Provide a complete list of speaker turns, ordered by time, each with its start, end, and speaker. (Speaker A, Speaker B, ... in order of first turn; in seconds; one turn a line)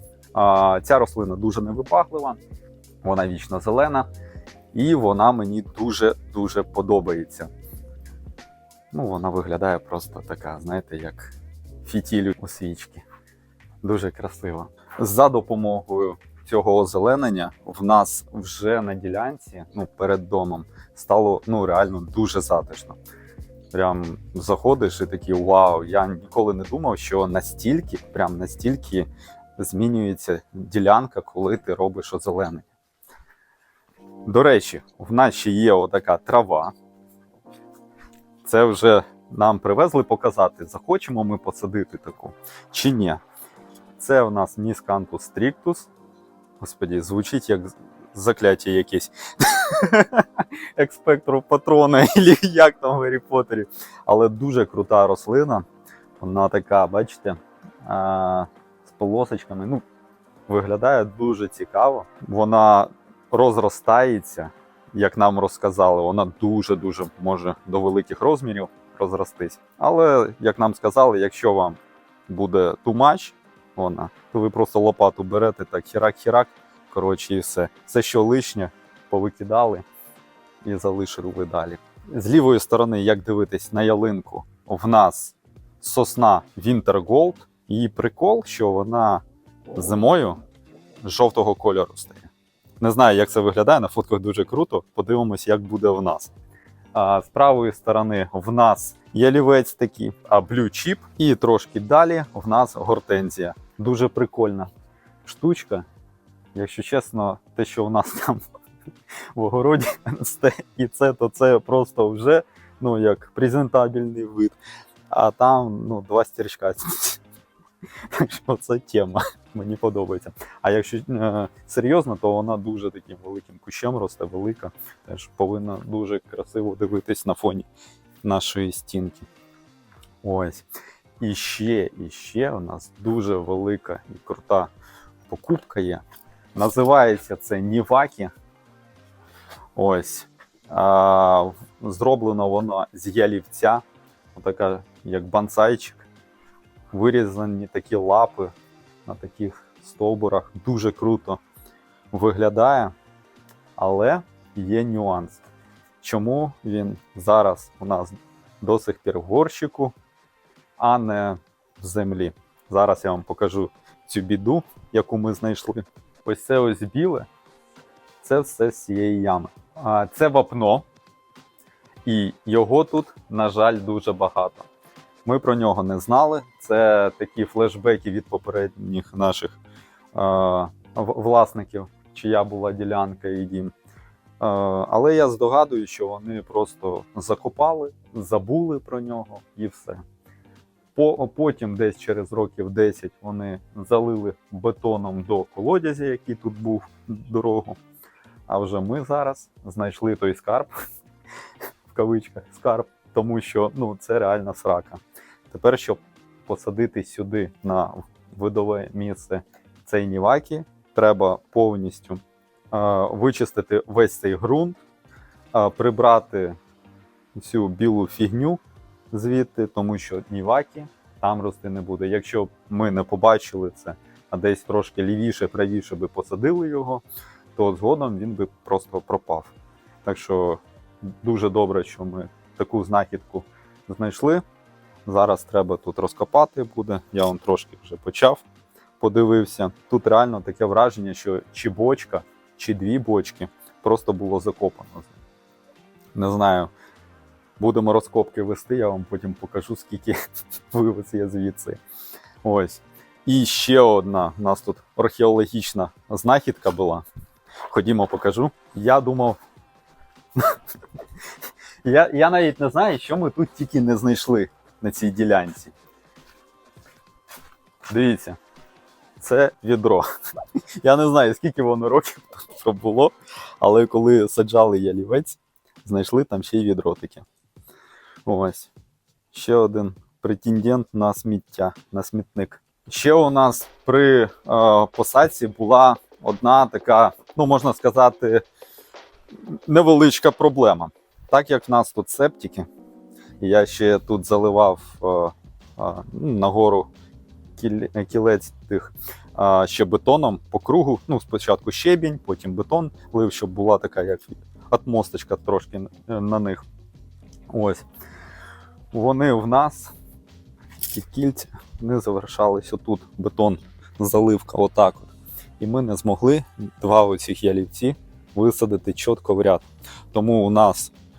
Speaker A: 0.3-2.4
Speaker A: 3.0-4.1
Speaker A: 4.7-7.5
Speaker A: 8.9-13.1
Speaker A: 13.8-23.0
Speaker A: 23.7-32.7
Speaker A: 34.2-36.7
Speaker A: 38.4-43.2
Speaker A: 44.0-45.9
Speaker A: 46.6-55.6
Speaker A: 56.2-59.8
Speaker A: 60.5-79.8
Speaker A: 80.6-89.2
Speaker A: 89.8-90.4
Speaker A: 91.0-96.3
Speaker A: 96.9-104.7
Speaker A: 105.2-105.9
Speaker A: 106.5-108.4
Speaker A: 109.3-114.6
Speaker A: 115.1-117.2
Speaker A: 118.1-127.7
Speaker A: 128.2-129.3
Speaker A: 130.2-130.7
Speaker A: 131.2-134.7
Speaker A: 135.3-136.0
Speaker A: 136.6-138.3
Speaker A: 139.8-143.8
Speaker A: 144.3-146.1
Speaker A: 146.9-148.5
Speaker A: 149.1-151.4
Speaker A: 152.1-152.9
Speaker A: 153.8-155.4
Speaker A: 156.0-159.9
Speaker A: 160.8-167.3
Speaker A: 168.2-170.8
Speaker A: 172.1-174.7
Speaker A: 175.2-179.6
Speaker A: 180.1-183.7
Speaker A: 184.4-190.0
Speaker A: 190.9-197.8
Speaker A: 198.5-200.7
Speaker A: 201.9-214.8
Speaker A: 215.5-216.6
Speaker A: 217.3-218.6
Speaker A: 219.1-227.0
Speaker A: 227.6-234.4
Speaker A: 235.1-238.4
Speaker A: 239.0-245.2
Speaker A: 246.2-246.7
Speaker A: 247.6-250.2
Speaker A: 250.7-251.8
Speaker A: 252.4-257.1
Speaker A: 257.7-259.4
Speaker A: 261.8-265.7
Speaker A: 267.9-268.4
Speaker A: 269.2-270.1
Speaker A: 270.8-277.2
Speaker A: 278.2-278.7
Speaker A: 279.3-288.4
Speaker A: 289.4-292.7
Speaker A: 293.4-296.9
Speaker A: 297.6-306.6
Speaker A: 307.5-307.9
Speaker A: 308.9-309.9
Speaker A: 310.9-320.9